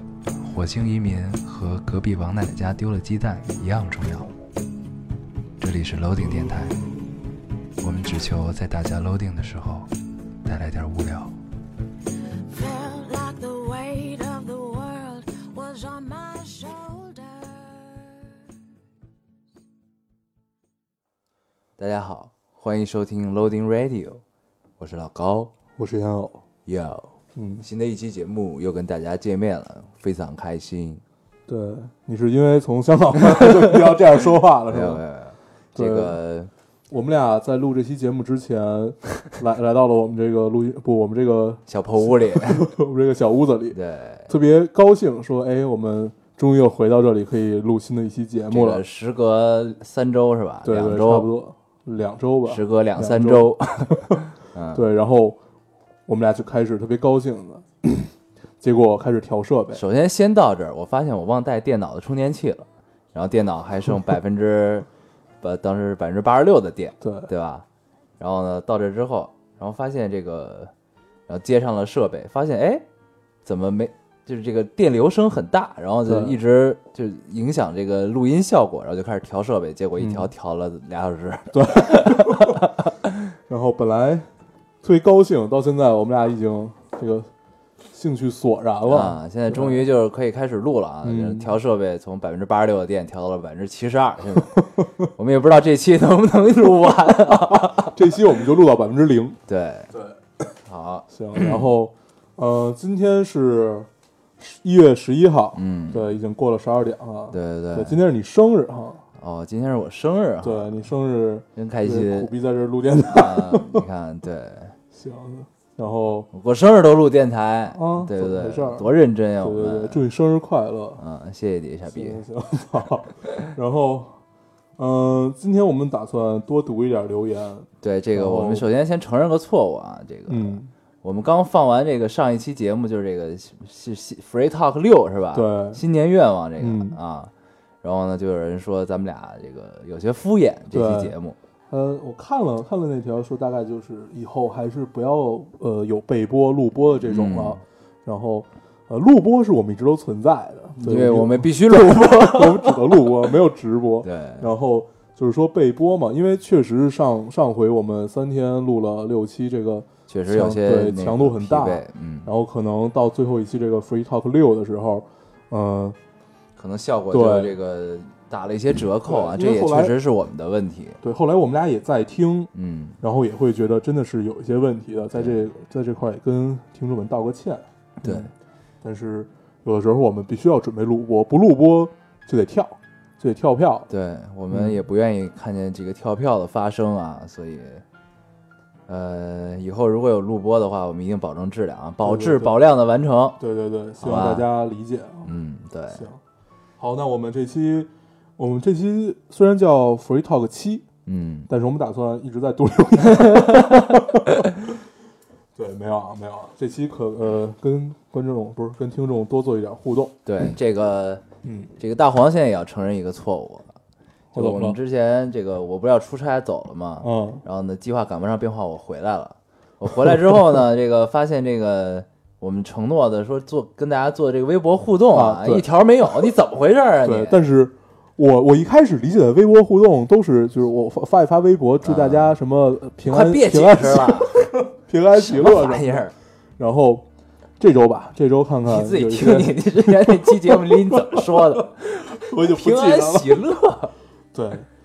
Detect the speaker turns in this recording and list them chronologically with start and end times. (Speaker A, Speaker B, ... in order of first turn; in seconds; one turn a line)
Speaker A: 0.4-4.3
Speaker A: 5.6-6.8
Speaker A: 7.8-9.9
Speaker A: 10.4-11.4
Speaker B: 12.4-18.2
Speaker A: 21.8-24.2
Speaker A: 24.8-25.5
Speaker C: 25.8-26.4
Speaker A: 26.7-31.0
Speaker C: 27.4-27.6
Speaker C: 31.5-35.0
Speaker A: 34.7-36.5
Speaker C: 35.8-36.2
Speaker C: 36.9-48.8
Speaker A: 41.7-42.7
Speaker A: 43.7-44.3
Speaker A: 48.5-51.3
Speaker C: 50.6-54.2
Speaker A: 52.5-54.9
Speaker C: 54.7-55.4
Speaker C: 56.1-59.8
Speaker A: 59.7-64.9
Speaker A: 65.4-67.7
Speaker C: 67.0-67.3
Speaker A: 68.2-70.7
Speaker A: 71.3-72.8
Speaker A: 73.5-83.1
Speaker C: 76.1-76.4
Speaker C: 80.0-80.3
Speaker C: 81.5-82.7
Speaker C: 83.5-84.3
Speaker C: 84.8-87.3
Speaker C: 87.9-89.9
Speaker A: 88.9-98.0
Speaker C: 91.0-91.6
Speaker C: 94.6-95.1
Speaker C: 97.1-99.4
Speaker A: 99.5-99.9
Speaker A: 100.7-101.7
Speaker C: 101.1-109.0
Speaker A: 105.5-106.2
Speaker A: 107.3-108.0
Speaker A: 109.2-110.9
Speaker C: 110.4-113.8
Speaker A: 111.5-112.3
Speaker A: 113.1-114.8
Speaker C: 114.9-116.3
Speaker A: 116.3-120.0
Speaker C: 117.7-121.0
Speaker A: 121.0-122.2
Speaker C: 121.9-124.2
Speaker C: 124.8-128.7
Speaker A: 127.8-137.3
Speaker C: 130.3-130.7
Speaker C: 135.3-135.8
Speaker C: 136.6-137.0
Speaker A: 137.8-141.4
Speaker C: 140.7-141.1
Speaker C: 141.7-166.0
Speaker A: 147.1-147.6
Speaker A: 150.8-153.1
Speaker A: 154.0-154.5
Speaker A: 160.1-162.3
Speaker A: 166.6-171.0
Speaker C: 167.1-167.6
Speaker C: 169.1-169.9
Speaker C: 171.0-178.3
Speaker A: 172.5-173.0
Speaker A: 175.2-175.4
Speaker A: 178.0-178.3
Speaker C: 178.8-183.9
Speaker A: 183.9-187.8
Speaker C: 184.5-184.8
Speaker A: 188.9-193.4
Speaker C: 192.0-192.6
Speaker C: 193.4-195.3
Speaker A: 194.0-194.5
Speaker A: 195.2-196.1
Speaker C: 195.9-196.2
Speaker C: 196.8-200.9
Speaker A: 201.1-201.5
Speaker C: 201.5-204.8
Speaker A: 203.2-203.8
Speaker C: 205.6-210.2
Speaker A: 210.2-211.2
Speaker C: 211.4-211.7
Speaker A: 211.8-213.8
Speaker C: 214.3-214.8
Speaker A: 214.3-227.4
Speaker C: 217.0-217.4
Speaker C: 225.1-226.3
Speaker C: 227.0-236.1
Speaker A: 231.8-232.4
Speaker A: 233.1-234.5
Speaker A: 235.1-236.1
Speaker C: 236.6-237.1
Speaker C: 237.6-243.4
Speaker A: 238.7-243.9
Speaker C: 244.3-244.7